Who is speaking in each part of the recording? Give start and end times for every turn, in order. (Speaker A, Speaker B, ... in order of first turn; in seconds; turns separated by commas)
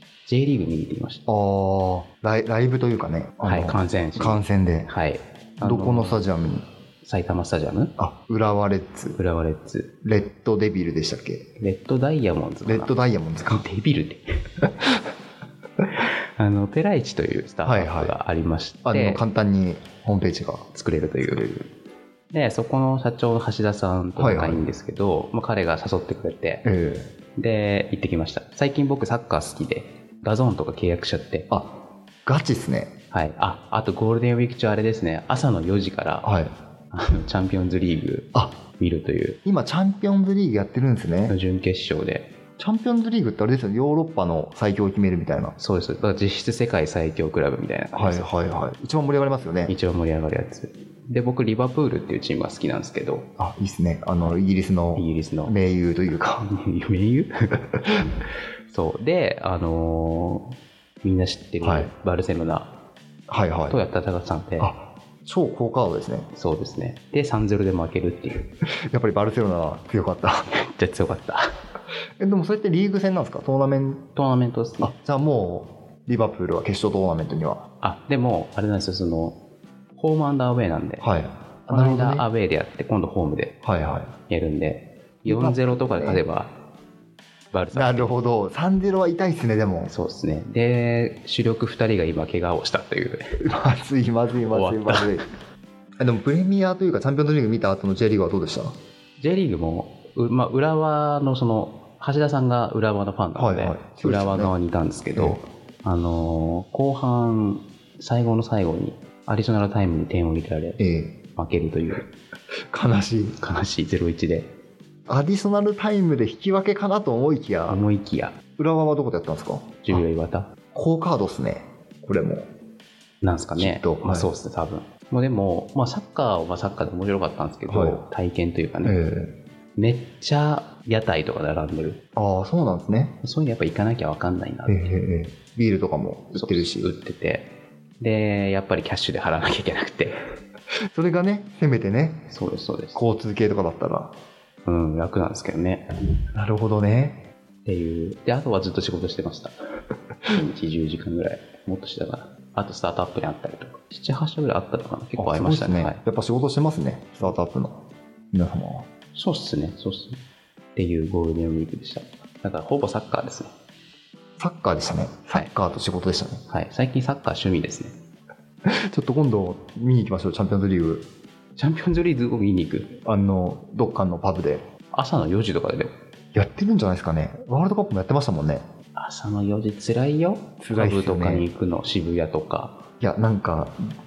Speaker A: 0.3-1.2, Speaker B: 1.3-4.9, Speaker A: 3.4-6.2, Speaker B: 5.6-6.6, Speaker A: 7.0-7.9, Speaker B: 8.0-9.2, Speaker A: 9.2-9.9, Speaker B: 10.0-11.4, Speaker A: 11.6-14.5, Speaker B: 12.7-13.6, Speaker A: 15.9-19.2, Speaker B: 17.6-18.1, Speaker B: 18.8-20.7, Speaker A: 20.7-21.7, Speaker B: 21.2-21.5, Speaker A: 22.3-26.6, Speaker B: 24.1-24.6, Speaker B: 26.6-27.1, Speaker A: 27.4-31.5, Speaker B: 32.2-32.9, Speaker A: 33.1-36.3, Speaker B: 36.2-36.5, Speaker A: 36.9-39.4, Speaker B: 39.5-41.4, Speaker A: 41.3-42.3, Speaker B: 42.6-45.5, Speaker A: 45.6-48.3, Speaker B: 47.9-49.7, Speaker A: 49.7-53.3, Speaker B: 53.4-56.5, Speaker A: 54.9-55.5, Speaker A: 56.4-57.3, Speaker A: 57.8-58.1, Speaker A: 58.7-62.7, Speaker B: 61.6-61.9, Speaker B: 63.3-63.8, Speaker A: 63.7-64.7, Speaker B: 64.6-66.3, Speaker A: 66.3-68.5, Speaker B: 68.9-70.5, Speaker A: 70.5-71.5, Speaker B: 72.2-74.0, Speaker A: 74.1-74.9, Speaker B: 74.8-77.6, Speaker A: 77.8-79.4, Speaker A: 80.0-83.6, Speaker B: 81.0-82.3, Speaker B: 83.6-84.1, Speaker A: 84.3-86.5, Speaker B: 85.2-86.2, Speaker A: 87.5-88.1, Speaker B: 87.7-89.9, Speaker A: 89.9-93.4, Speaker B: 93.4-95.2, Speaker A: 94.5-95.1, Speaker B: 96.0-98.7, Speaker A: 99.2-110.8, Speaker B: 103.3-104.5, Speaker B: 105.1-105.4, Speaker B: 110.8-111.2, Speaker A: 111.3-112.0, Speaker B: 112.7-113.4, Speaker A: 113.4-114.5, Speaker B: 115.1-117.8, Speaker A: 117.7-118.4, Speaker B: 118.6-120.0, Speaker A: 119.8-120.5, Speaker B: 120.7-122.5, Speaker A: 123.2-128.9, Speaker B: 123.5-124.3, Speaker B: 127.7-128.0, Speaker B: 128.8-129.4, Speaker A: 129.8-132.0, Speaker B: 132.2-133.1, Speaker A: 133.2-134.9, Speaker B: 134.7-136.9, Speaker A: 136.3-140.2, Speaker B: 140.9-142.3, Speaker A: 142.3-143.0, Speaker B: 142.9-144.1, Speaker A: 144.7-145.9, Speaker B: 146.3-147.2, Speaker A: 147.6-149.5, Speaker A: 150.2-156.0, Speaker B: 155.2-157.8, Speaker B: 158.3-158.9, Speaker A: 159.1-160.2, Speaker A: 160.8-163.5, Speaker B: 164.4-166.4, Speaker A: 166.5-167.9, Speaker B: 168.6-171.0, Speaker A: 171.6-172.9, Speaker B: 173.0-174.6, Speaker A: 174.9-175.9, Speaker B: 176.3-178.6, Speaker A: 178.9-182.8, Speaker B: 180.6-181.5, Speaker B: 183.0-183.8